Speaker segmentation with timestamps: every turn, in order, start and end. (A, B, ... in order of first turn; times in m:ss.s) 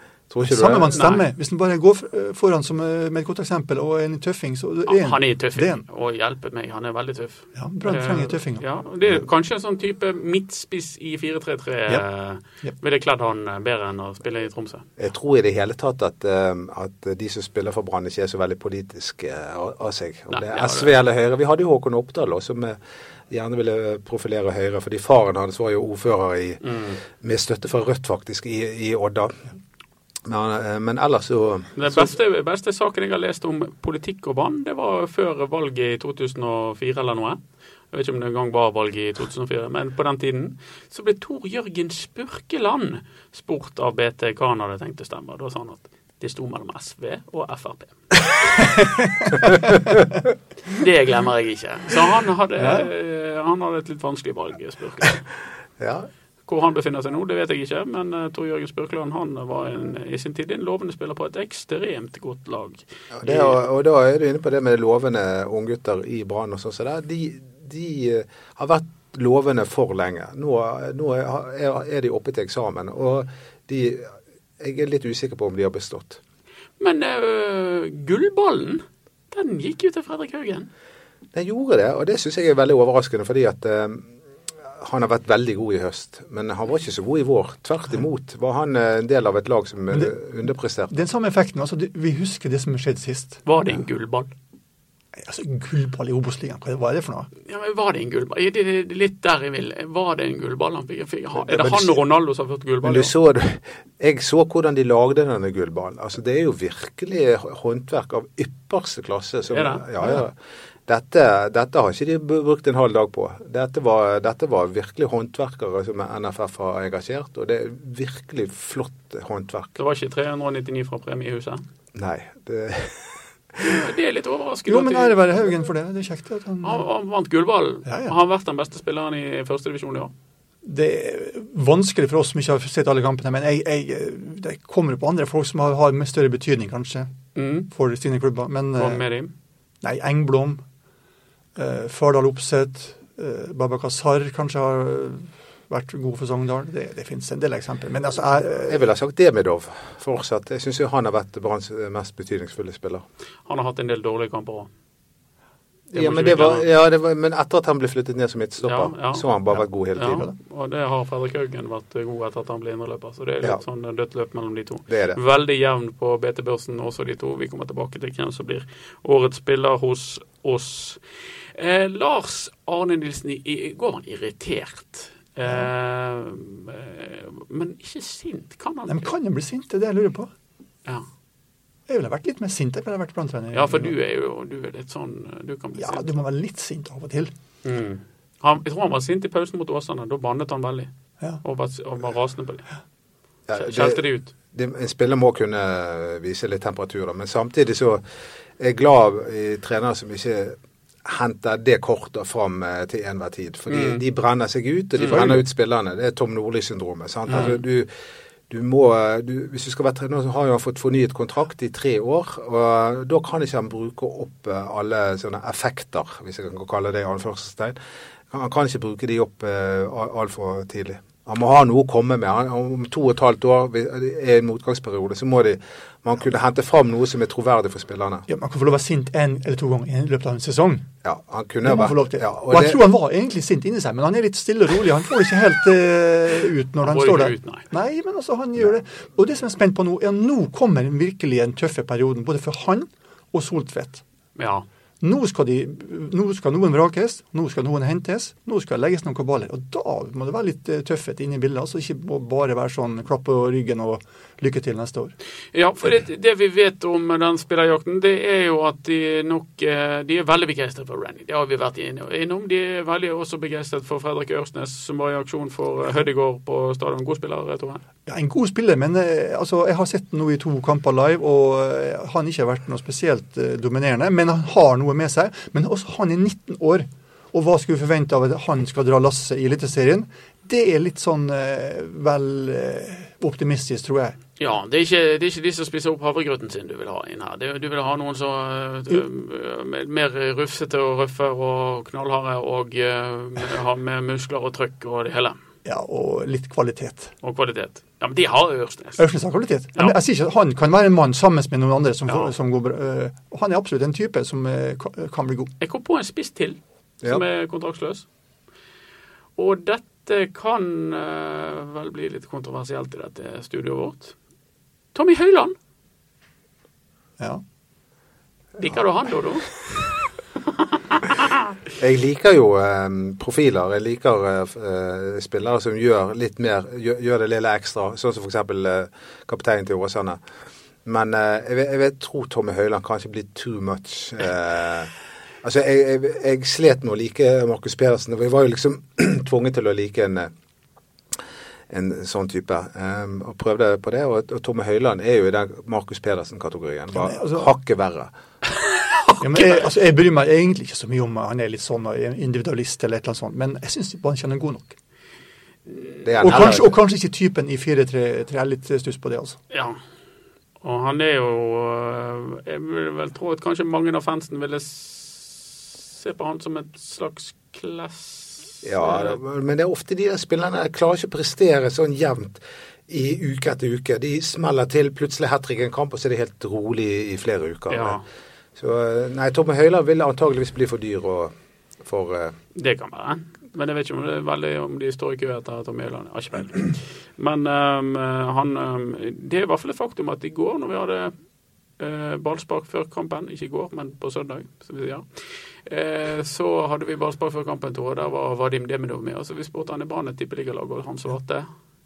0:00.3-0:01.0 A
0:00.4-0:05.8 B
0:00.9-0:01.2 C
0:04.9-0:14.8 C
0:07.5-0:08.6 B
0:15.0-0:22.8 A
0:20.3-0:20.9 C
0:23.3-0:29.4 A
0:26.6-0:27.0 C
0:30.2-0:32.1 A
0:31.8-0:37.4 C
0:37.9-0:47.9 C
0:50.7-0:55.2 C
0:52.6-0:52.9 B
0:55.8-0:56.1 A
0:56.4-1:03.6 C
1:03.2-1:16.2 A
1:16.8-1:20.7 C
1:21.3-1:24.1 A
1:24.7-1:30.9 A
1:30.9-1:33.4 B
1:33.4-1:34.3 C
1:35.1-1:37.3 B
1:37.4-1:43.1 C
1:41.5-1:42.0 A
1:42.8-1:50.3 A
1:49.5-1:50.2 C
1:50.9-1:59.8 A
1:59.8-2:01.6 C
2:01.9-2:03.6 A
2:03.6-2:05.5 C
2:04.7-2:06.8 B
2:06.6-2:10.1 C
2:07.8-2:08.1 B
2:10.6-2:17.1 B
2:17.3-2:17.7 C
2:17.7-2:19.0 B
2:18.8-2:19.3 C
2:19.8-2:20.6 B
2:21.6-2:28.8 B
2:28.6-2:33.0 A
2:33.4-2:34.7 C
2:35.9-2:40.3 A
2:35.9-2:36.6 C
2:38.6-2:39.2 C
2:40.0-2:51.0 C
2:44.9-2:45.2 A
2:51.5-2:59.1 C
2:58.9-3:00.3 B
3:01.9-3:03.9 B
3:03.5-3:06.0 C
3:05.8-3:07.3 B
3:07.6-3:10.9 C
3:11.4-3:12.7 C
3:13.5-3:18.0 A
3:13.5-3:14.3 C
3:18.6-3:27.9 A
3:23.7-3:24.0 C
3:25.0-3:25.3 C
3:27.3-3:27.6 C
3:28.5-3:37.8 A
3:38.3-3:48.3 A
3:48.3-3:50.9 B
3:51.0-3:52.8 A
3:51.6-4:04.0 B
3:56.8-3:57.6 C
4:04.4-4:04.6 C
4:05.0-4:15.1 B
4:15.5-4:27.8 C
4:28.0-4:44.2 B
4:44.4-4:55.4 C
4:55.6-4:57.1 B
4:57.2-4:59.0 C
4:59.0-5:05.5 B
5:05.6-5:08.0 C
5:09.4-5:14.1 C
5:14.9-5:15.5 C
5:18.6-5:19.5 C
5:20.9-5:21.4 C
5:21.7-5:30.2 A
5:30.8-5:40.3 A
5:41.7-5:48.1 A
5:46.9-5:47.5 B
5:48.8-5:49.6 C
5:49.2-5:54.8 B
5:56.0-5:56.8 A
5:56.2-5:59.4 B
5:59.5-5:59.8 C
6:00.6-6:09.2 C
6:08.6-6:18.0 A
6:17.7-6:18.0 C
6:18.6-6:21.3 A
6:21.8-6:22.4 A
6:22.5-6:31.1 C
6:31.8-6:35.0 C
6:35.6-6:41.5 C